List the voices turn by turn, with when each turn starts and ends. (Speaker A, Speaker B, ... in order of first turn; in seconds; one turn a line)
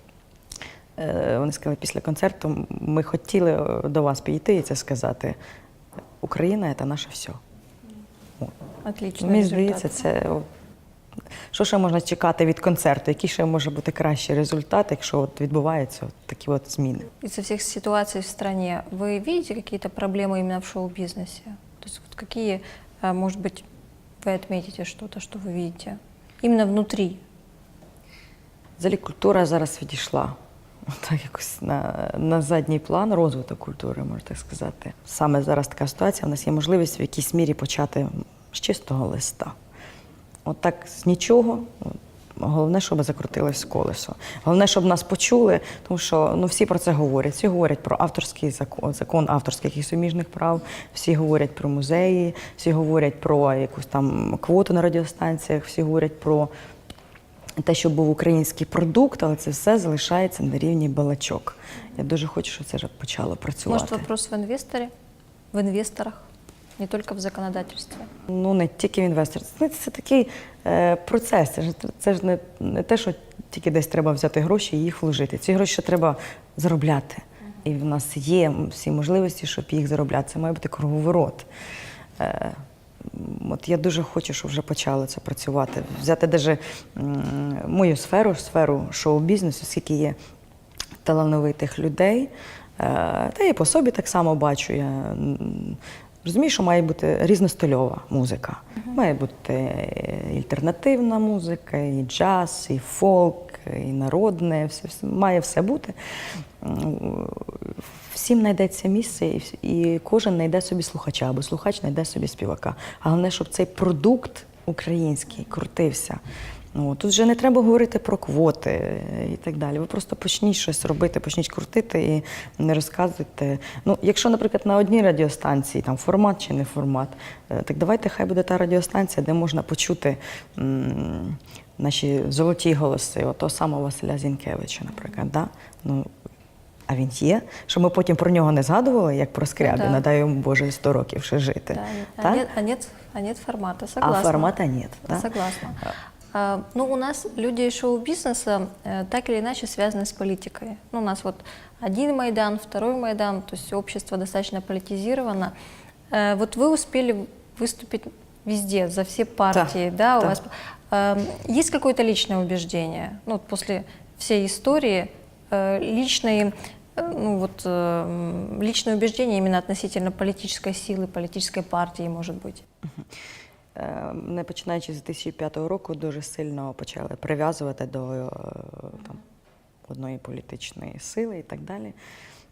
Speaker A: 1.0-5.4
Speaker A: 6.2-7.4
Speaker B: 8.8-10.0
Speaker A: 9.2-10.5
Speaker A: 11.5-17.1
Speaker B: 17.2-23.7
Speaker B: 24.2-27.2
Speaker A: 28.8-30.4
Speaker A: 30.9-39.6
Speaker A: 40.5-56.5
Speaker A: 57.6-64.1
Speaker B: 63.7-64.9
Speaker B: 65.5-66.3
Speaker B: 66.8-68.1
Speaker A: 68.3-81.5
Speaker A: 82.2-90.2
Speaker A: 91.0-106.0
Speaker A: 106.6-116.2
Speaker A: 116.8-136.1
Speaker A: 136.9-142.5
Speaker B: 139.6-140.0
Speaker B: 141.7-155.5
Speaker A: 144.0-145.3
Speaker B: 156.1-172.6
Speaker A: 159.5-160.4
Speaker A: 173.8-179.2
Speaker A: 179.9-182.0